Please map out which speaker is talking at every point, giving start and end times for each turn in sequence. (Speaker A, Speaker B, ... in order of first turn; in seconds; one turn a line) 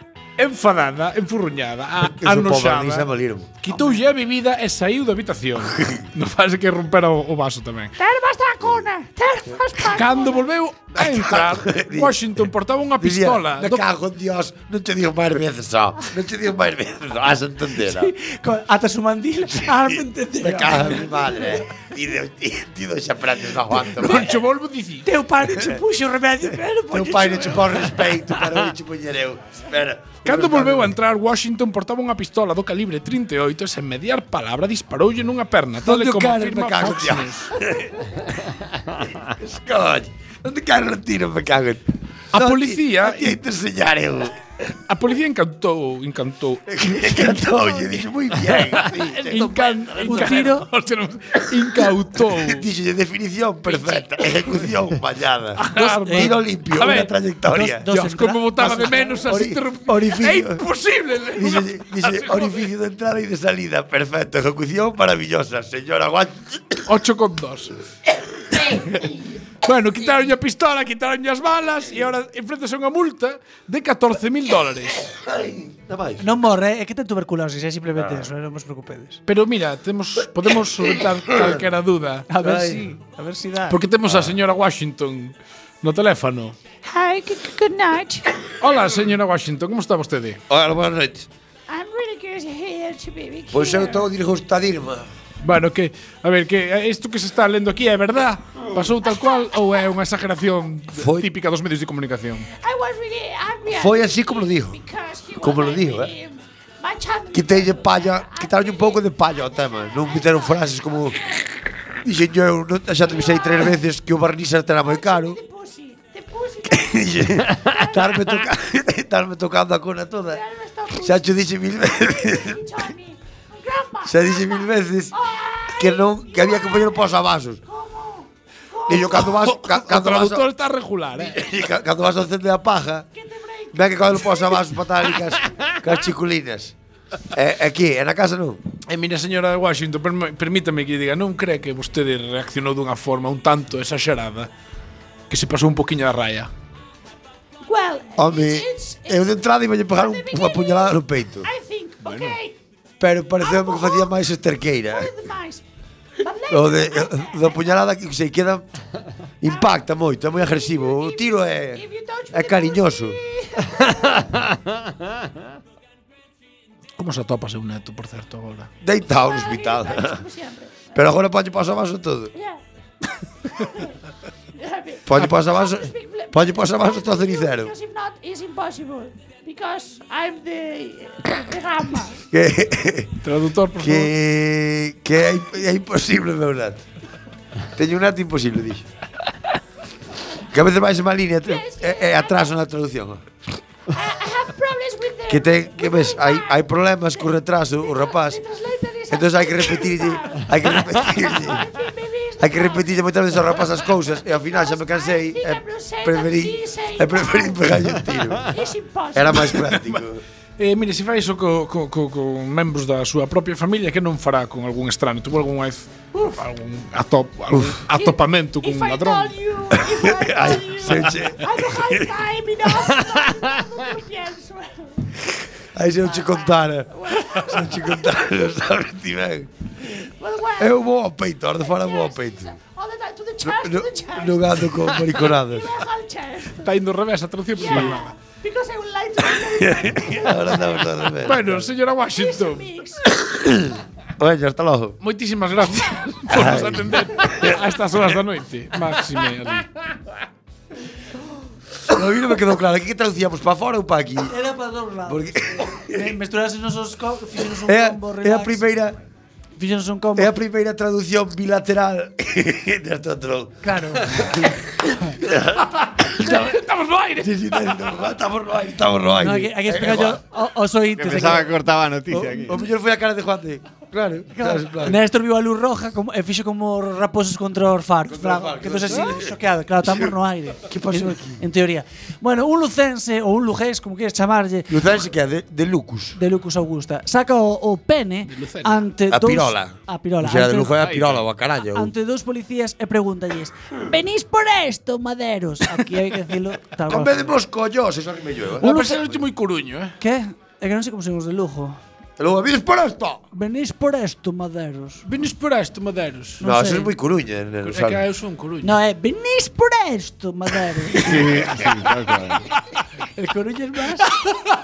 Speaker A: 0.4-8.0
Speaker B: 2.0-3.5
Speaker C: 8.0-10.4
Speaker D: 8.3-10.3
Speaker A: 9.9-13.8
Speaker B: 11.0-12.2
Speaker B: 13.0-18.1
Speaker D: 17.8-21.5
Speaker B: 19.6-24.3
Speaker A: 23.9-25.1
Speaker D: 25.1-28.1
Speaker B: 26.9-30.9
Speaker A: 30.2-37.5
Speaker B: 35.8-38.3
Speaker B: 39.0-44.4
Speaker A: 42.3-43.4
Speaker A: 44.9-46.7
Speaker B: 46.7-49.7
Speaker A: 48.4-52.7
Speaker D: 49.4-50.7
Speaker B: 52.4-57.9
Speaker A: 53.7-54.5
Speaker A: 55.6-57.1
Speaker D: 55.7-59.3
Speaker A: 57.8-62.7
Speaker B: 59.3-60.6
Speaker B: 61.3-66.8
Speaker A: 66.9-67.7
Speaker A: 69.6-75.1
Speaker B: 75.3-76.2
Speaker D: 76.2-79.2
Speaker A: 79.3-82.3
Speaker D: 82.3-83.8
Speaker B: 82.4-82.8
Speaker A: 83.7-86.6
Speaker C: 86.9-88.2
Speaker A: 88.6-90.4
Speaker B: 90.5-91.3
Speaker C: 91.7-94.0
Speaker B: 93.5-95.1
Speaker A: 95.4-102.5
Speaker C: 99.1-99.8
Speaker B: 101.0-101.3
Speaker C: 102.5-110.8
Speaker B: 103.7-104.8
Speaker B: 105.4-106.1
Speaker B: 107.3-111.2
Speaker B: 112.0-115.4
Speaker C: 113.1-113.7
Speaker C: 114.9-118.4
Speaker B: 116.7-120.4
Speaker C: 120.3-121.2
Speaker B: 121.0-122.8
Speaker C: 121.9-124.7
Speaker B: 124.0-125.2
Speaker C: 125.2-126.9
Speaker B: 125.8-127.6
Speaker C: 127.7-129.1
Speaker B: 128.9-130.5
Speaker A: 129.1-131.4
Speaker B: 131.2-133.1
Speaker C: 133.2-134.3
Speaker B: 133.7-136.7
Speaker B: 137.3-138.6
Speaker A: 138.9-144.5
Speaker A: 145.3-146.5
Speaker C: 147.7-149.4
Speaker B: 148.2-151.5
Speaker C: 150.0-152.6
Speaker A: 152.0-152.4
Speaker B: 153.0-155.1
Speaker C: 153.4-154.1
Speaker C: 155.0-155.6
Speaker C: 156.2-157.3
Speaker B: 156.5-158.7
Speaker B: 159.4-163.2
Speaker C: 160.6-164.2
Speaker E: 164.2-165.3
Speaker A: 167.0-168.7
Speaker B: 168.8-170.2
Speaker C: 169.2-170.9
Speaker B: 170.9-172.3
Speaker C: 174.6-182.2
Speaker B: 175.1-177.7
Speaker B: 182.3-183.2
Speaker A: 183.2-184.1
Speaker B: 183.8-186.8
Speaker B: 187.8-188.9
Speaker B: 190.5-193.2
Speaker C: 191.5-192.5
Speaker C: 193.9-196.7
Speaker B: 195.3-198.4
Speaker C: 197.9-203.0
Speaker B: 199.1-201.7
Speaker B: 202.4-208.6
Speaker C: 204.5-207.7
Speaker C: 208.5-209.7
Speaker B: 209.1-210.2
Speaker A: 210.6-219.4
Speaker B: 217.5-217.8
Speaker C: 217.9-224.9
Speaker B: 219.8-222.1
Speaker B: 225.8-229.5
Speaker C: 227.1-228.1
Speaker C: 230.2-230.7
Speaker B: 230.6-232.6
Speaker C: 231.7-236.6
Speaker B: 233.4-235.8
Speaker A: 236.6-238.1
Speaker C: 237.6-240.3
Speaker D: 239.2-239.7
Speaker B: 239.6-241.7
Speaker A: 241.2-242.7
Speaker C: 242.2-243.0
Speaker B: 243.3-245.0
Speaker A: 245.0-249.7
Speaker B: 246.3-247.6
Speaker B: 251.8-254.3
Speaker D: 254.3-258.7
Speaker B: 255.1-256.1
Speaker B: 257.6-259.0
Speaker D: 259.6-260.3
Speaker B: 260.2-266.6
Speaker D: 263.6-264.2
Speaker A: 266.2-267.8
Speaker B: 267.2-270.2
Speaker D: 269.2-271.6
Speaker E: 271.0-272.6
Speaker B: 272.1-275.0
Speaker D: 274.3-284.8
Speaker B: 278.1-280.0
Speaker B: 280.7-281.4
Speaker B: 284.7-286.2
Speaker D: 286.2-290.8
Speaker A: 288.3-288.8
Speaker B: 289.1-291.9
Speaker E: 290.8-291.3
Speaker D: 291.7-297.4
Speaker B: 296.9-299.1
Speaker A: 298.6-300.0
Speaker D: 298.6-299.0
Speaker D: 300.0-301.8
Speaker B: 302.2-303.2
Speaker D: 303.3-305.0
Speaker A: 305.1-306.4
Speaker D: 306.4-306.9
Speaker B: 306.4-308.0
Speaker A: 307.6-308.7
Speaker D: 308.6-311.2
Speaker E: 311.0-312.5
Speaker D: 313.2-314.1